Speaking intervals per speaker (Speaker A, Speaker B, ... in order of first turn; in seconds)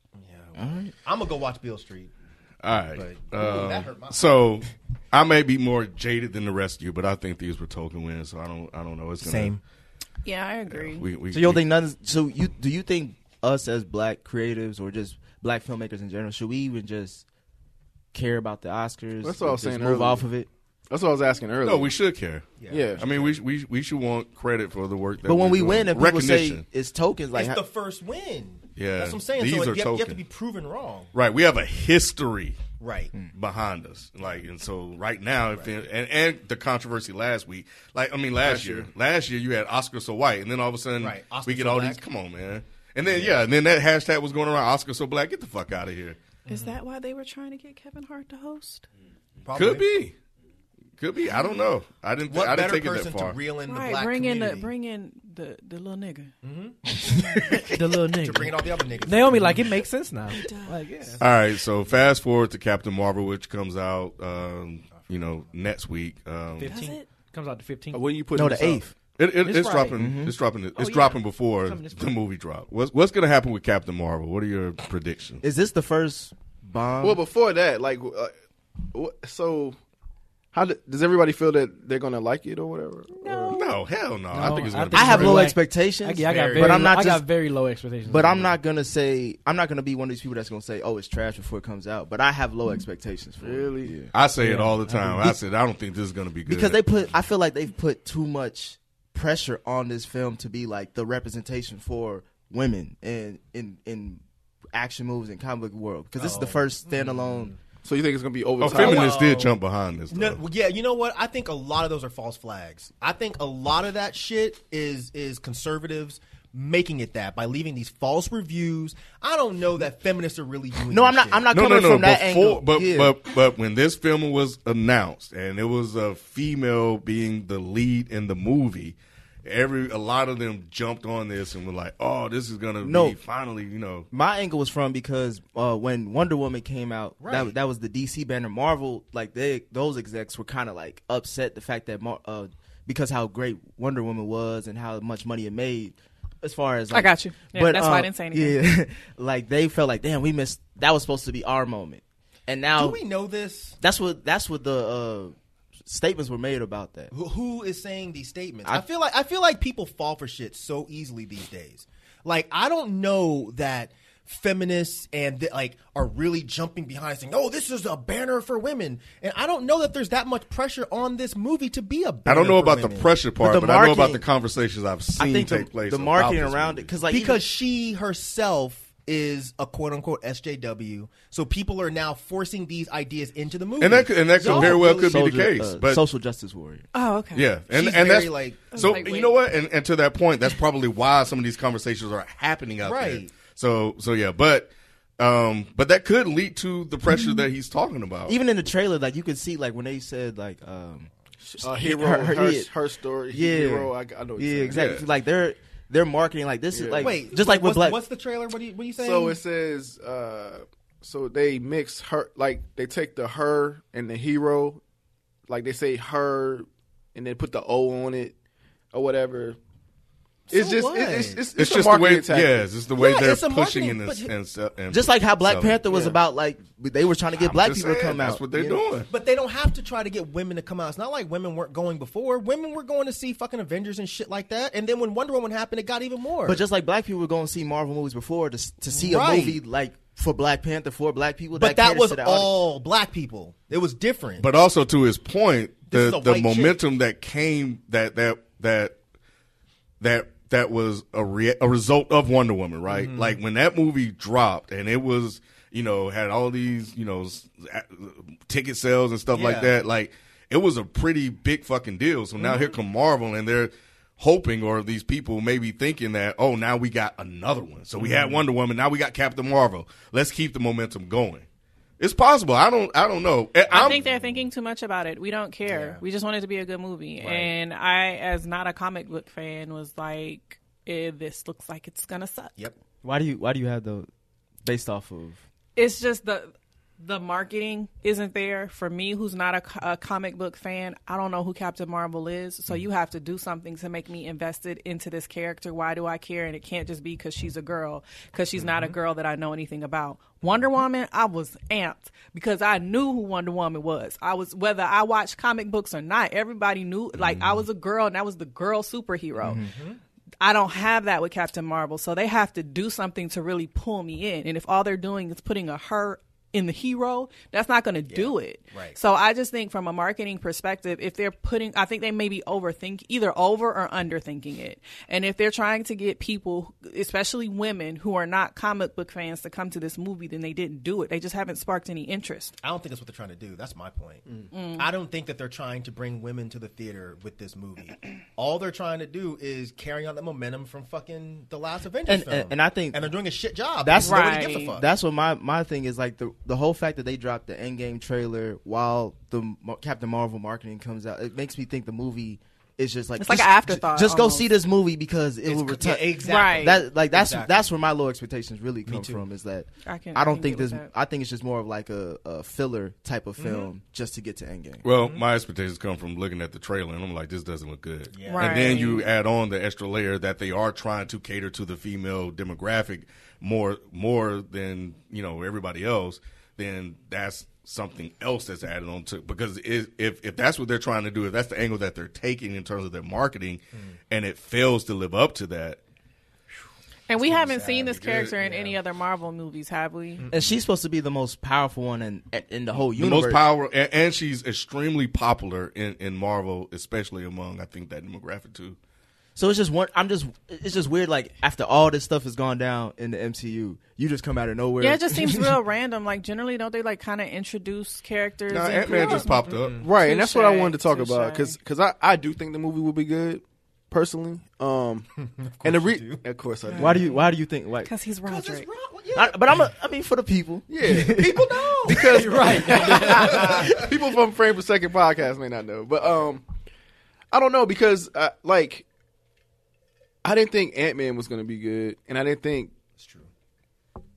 Speaker A: 0.1-2.1, 2.9-4.4, 9.2-9.6, 22.6-23.4, 27.3-31.1, 32.8-33.1, 41.0-42.0, 43.0-43.4, 46.5-46.8, 49.4-49.9, 52.3-54.7, 56.4-56.8, 58.2-59.6, 64.9-65.5, 106.2-107.6, 108.6-109.6, 110.1-121.5, 137.2-137.5, 152.7-153.8, 157.1-173.1, 177.1-185.2, 187.7-189.2, 192.8-193.3, 207.0-209.4, 220.5-221.5, 222.9-224.3, 229.1-236.6, 238.9-239.6, 241.6-244.5, 245.9-246.8, 252.9-253.4, 259.3-259.7, 262.4-262.8, 268.0-268.4, 273.7-274.4, 275.7-276.0, 277.2-277.5, 298.6-299.0, 309.6-310.0, 318.1-319.0, 332.6-344.8, 355.4-357.7, 358.9-359.2, 363.4-363.7, 364.9-365.2, 368.1-369.0, 387.1-388.8, 390.2-390.5, 409.1-409.9, 415.2-416.2, 418.3-419.7, 420.8-423.9, 433.0-433.3
Speaker B: 0.6-0.9, 11.3-17.2, 18.1-20.5, 25.2-27.6, 57.0-57.6, 68.3-68.9, 70.0-70.4, 75.4-77.2, 84.9-87.3, 88.1-94.1, 96.5-104.2, 104.7-107.5, 120.9-123.2, 132.8-133.2, 134.1-153.0, 153.8-155.3, 155.8-157.1, 173.4-174.2, 175.2-177.4, 184.4-186.8, 198.3-201.1, 201.6-202.7, 203.3-208.0, 224.9-228.8, 236.4-242.7, 283.0-284.1, 284.6-285.4, 342.1-343.2, 343.8-364.8, 390.3-393.4, 399.4-405.6, 416.7-417.9, 419.1-422.0
Speaker C: 2.6-9.6, 10.7-11.6, 21.6-26.6, 28.8-30.2, 31.1-32.6, 33.3-46.2, 49.5-50.1, 51.0-53.4, 61.2-66.8, 69.2-75.4, 83.5-85.5, 94.1-96.8, 108.6-110.4, 121.5-134.1, 172.3-176.9, 183.8-186.0, 187.3-198.4, 204.7-205.1, 221.6-225.8, 227.4-229.1, 244.4-248.9, 250.0-271.4, 272.0-274.0, 364.8-385.8, 388.0-388.3, 392.9-398.8, 408.5-409.8
Speaker D: 10.2-11.1, 46.5-48.9, 53.6-56.3, 60.3-61.3, 66.6-67.1, 146.9-148.6, 186.9-187.6, 188.7-189.4, 273.7-282.6, 285.8-309.6, 310.4-332.6, 334.5-334.9, 344.0-344.8, 353.2-354.5, 356.2-356.8, 359.9-360.9, 368.3-369.1, 387.1-390.3, 404.8-411.6, 417.8-418.7
Speaker E: 19.2-20.3, 20.9-21.9, 22.7-23.1, 38.4-38.9, 67.9-68.9, 77.0-78.3, 78.9-79.8, 80.5-83.5, 86.2-86.9, 93.4-94.0, 107.8-109.2, 201.4-204.9, 206.7-207.2, 209.0-214.8, 215.5-218.4, 218.9-219.6, 220.5-222.7, 225.9-226.2, 409.0-409.2, 409.8-415.1, 415.6-417.1, 420.7-426.4, 427.3-428.9, 430.2-432.7
Speaker F: 57.5-61.2, 66.6-68.2, 69.4-70.1, 70.8-72.2, 83.2-83.5, 84.3-88.5, 94.4-95.3, 422.0-423.4